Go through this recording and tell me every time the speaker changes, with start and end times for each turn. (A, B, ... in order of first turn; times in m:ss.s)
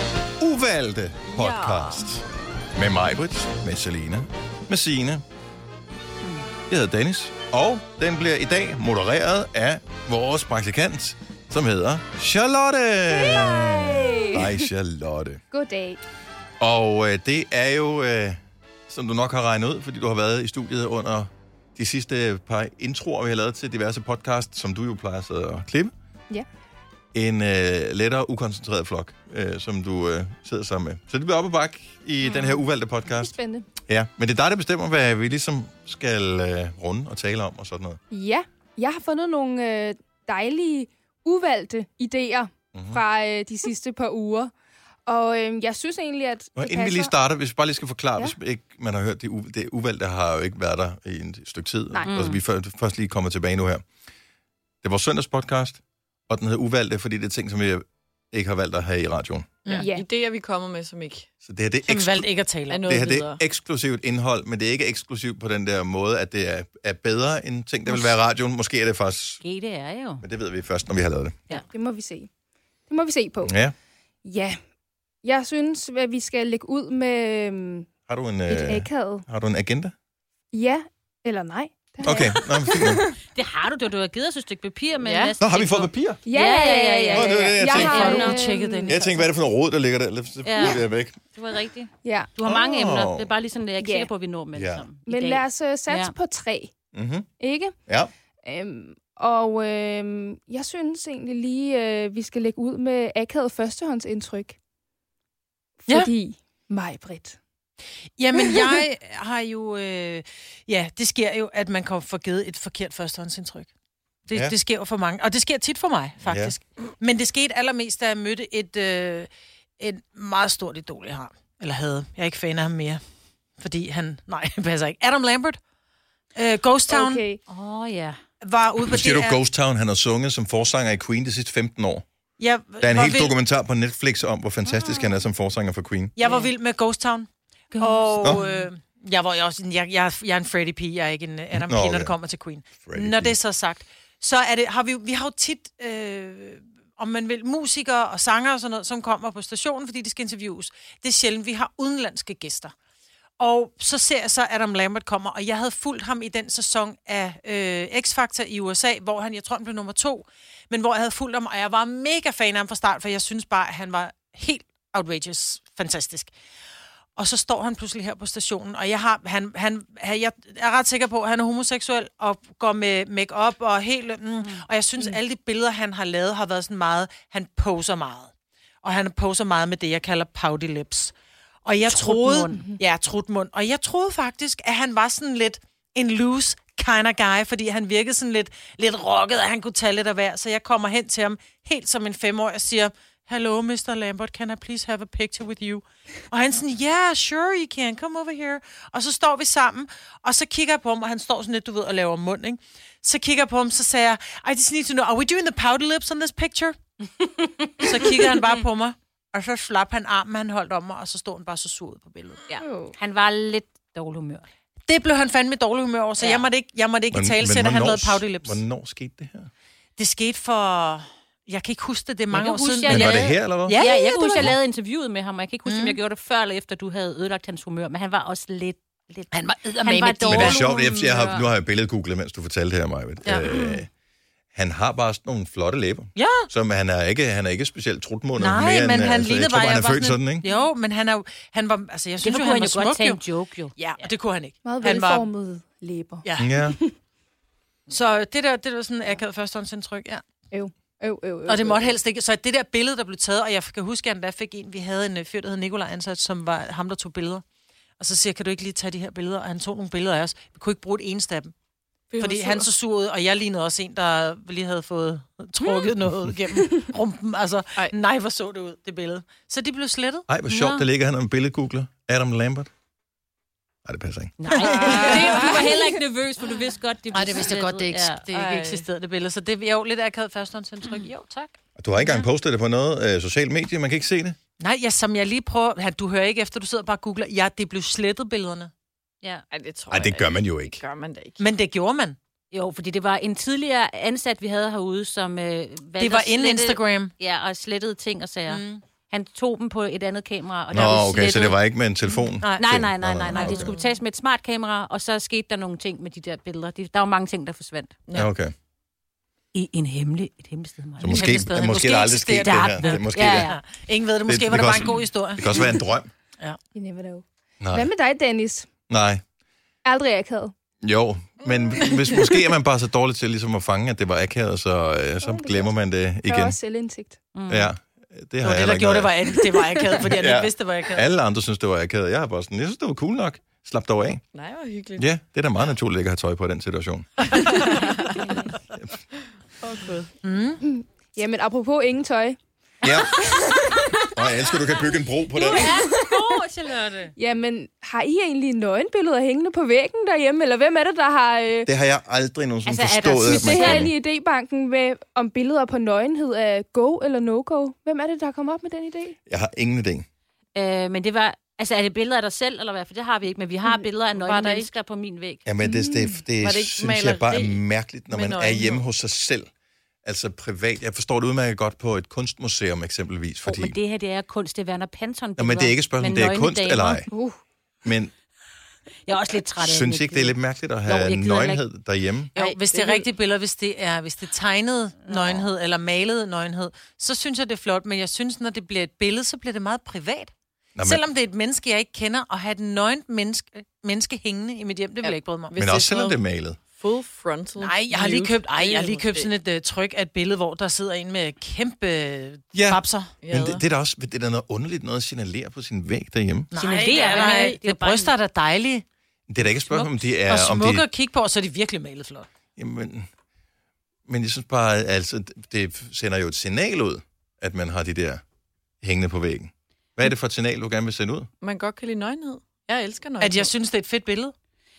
0:00.4-0:02.2 A
0:01.3-0:02.1 B
0:02.8-0:05.2 A
0:06.7-0:15.4 A
0:13.1-0:14.7 C
0:15.5-0:16.0 C
0:16.6-0:25.9 A
0:27.1-0:38.0 A
0:32.2-0:32.6 D
0:33.1-0:33.7 C
0:38.1-0:44.5 C
0:42.7-0:43.0 A
0:45.0-0:47.2 C
0:46.6-0:53.8 A
0:51.9-0:52.2 C
0:52.1-0:52.4 D
0:54.8-0:59.6 A
0:59.7-1:01.3 B
0:59.8-1:00.0 C
1:01.4-1:02.3 A
1:01.9-1:02.9 E
1:02.7-1:03.4 B
1:02.8-1:09.4 A
1:09.4-1:10.2 D
1:10.2-1:11.4 A
1:11.5-1:12.3 C
1:12.9-1:13.5 C
1:13.4-1:13.8 A
1:14.2-1:14.6 C
1:15.2-1:17.9 C
1:18.1-1:19.9 A
1:18.5-1:19.3 C
1:20.5-1:23.2 C
1:22.0-1:23.0 A
1:23.3-1:28.4 D
1:25.0-1:25.3 E
1:25.4-1:26.2 A
1:26.2-1:29.2 C
1:27.1-1:28.4 A
1:27.8-1:29.1 E
1:28.9-1:31.2 A
1:30.4-1:36.1 D
1:32.0-1:32.3 C
1:32.4-1:33.3 A
1:33.8-1:34.1 C
1:34.5-1:34.9 A
1:35.0-1:36.7 C
1:36.9-1:37.3 A
1:37.4-1:37.8 C
1:38.4-1:44.6 C
1:45.8-1:47.4 C
1:48.2-1:53.7 E
1:54.3-1:59.3 E
1:56.2-1:56.5 A
1:59.8-2:03.0 E
2:03.6-2:05.6 E
2:06.3-2:07.2 E
2:06.9-2:07.4 C
2:07.5-2:08.2 D
2:08.4-2:09.4 E
2:08.8-2:12.0 A
2:12.4-2:13.3 E
2:12.8-2:16.2 A
2:14.7-2:15.2 D
2:16.2-2:32.7 E
2:17.7-2:18.7 D
2:21.5-2:22.2 A
2:22.8-2:23.4 A
2:33.4-2:46.3 E
2:47.2-2:58.3 E
2:58.8-3:26.8 E
3:01.8-3:02.6 D
3:27.2-3:28.4 D
3:27.8-3:32.4 E
3:32.5-3:34.4 D
3:32.5-3:33.0 B
3:34.9-3:38.6 E
3:36.2-3:36.4 D
3:37.1-3:39.5 A
3:40.0-3:44.5 E
3:42.3-3:51.5 D
3:42.9-3:43.8 A
3:45.7-3:46.0 E
3:49.3-3:50.6 E
3:50.2-3:53.9 A
3:53.4-3:53.8 D
3:54.5-4:00.4 A
3:56.2-3:56.5 E
3:58.4-4:03.2 E
4:02.2-4:04.1 D
4:03.8-4:05.3 E
4:04.6-4:06.9 C
4:06.2-4:06.5 E
4:06.4-4:06.8 A
4:07.9-4:10.2 E
4:10.5-4:11.9 C
4:11.4-4:17.4 E
4:18.0-4:21.5 E
4:22.1-4:22.7 B
4:22.2-4:30.2 E
4:30.3-4:32.7 A
4:30.5-4:30.9 D
4:33.8-4:34.3 A
4:34.4-4:38.3 D
4:34.5-4:36.0 E
4:34.6-4:35.6 C
4:37.1-4:41.6 E
4:38.3-4:38.8 B
4:41.8-4:44.4 A
4:42.0-4:42.3 D
4:44.6-4:48.7 E
4:49.5-4:51.5 B
4:49.9-4:50.8 A
4:51.4-4:52.2 E
4:52.5-5:01.6 D
4:56.0-4:57.1 E
4:58.5-4:58.8 E
5:00.7-5:03.7 A
5:02.6-5:08.0 D
5:03.3-5:03.7 E
5:03.5-5:03.9 B
5:08.1-5:08.3 B
5:08.1-5:08.5 A
5:09.5-5:11.5 D
5:11.0-5:13.5 A
5:11.0-5:15.7 E
5:12.4-5:13.6 D
5:14.2-5:16.1 A
5:16.7-5:18.7 C
5:17.6-5:17.9 A
5:18.9-5:19.2 A
5:19.8-5:20.5 C
5:20.8-5:26.6 A
5:25.2-5:27.2 C
5:27.3-5:27.7 D
5:27.5-5:29.1 A
5:28.4-5:31.1 E
5:30.0-5:34.2 A
5:34.3-5:35.1 B
5:35.0-5:37.4 A
5:37.5-5:38.2 B
5:39.6-5:40.1 B
5:40.2-5:40.6 E
5:40.6-5:42.4 C
5:42.8-5:43.3 A
5:43.1-5:44.2 C
5:44.1-5:45.7 A
5:45.4-5:46.4 C
5:45.4-5:47.1 E
5:45.6-5:46.8 D
5:47.2-5:51.7 C
5:51.7-5:53.9 A
5:52.6-5:53.9 D
5:53.3-5:59.2 C
5:59.3-6:00.1 A
6:00.6-6:05.4 D
6:04.1-6:04.7 B
6:05.4-6:09.5 A
6:05.6-6:06.2 C
6:06.4-6:08.9 B
6:10.0-6:13.8 A
6:13.4-6:17.1 D
6:15.4-6:17.1 A
6:17.8-6:18.1 A
6:19.1-6:21.6 D
6:19.6-6:22.3 A
6:22.3-6:35.6 E
6:22.4-6:23.1 B
6:25.1-6:25.3 D
6:30.8-6:31.0 A
6:35.0-6:39.3 B
6:35.6-6:36.6 A
6:37.6-6:43.1 E
6:42.5-6:46.5 A
6:43.2-6:43.6 B
6:46.5-6:48.8 E
6:46.6-6:48.1 D
6:46.9-6:47.6 B
6:49.3-6:50.8 A
6:49.4-6:52.3 E
6:52.6-6:53.1 A
6:54.1-6:58.2 A
6:58.8-7:01.3 A
7:01.4-7:03.5 B
7:03.2-7:04.3 E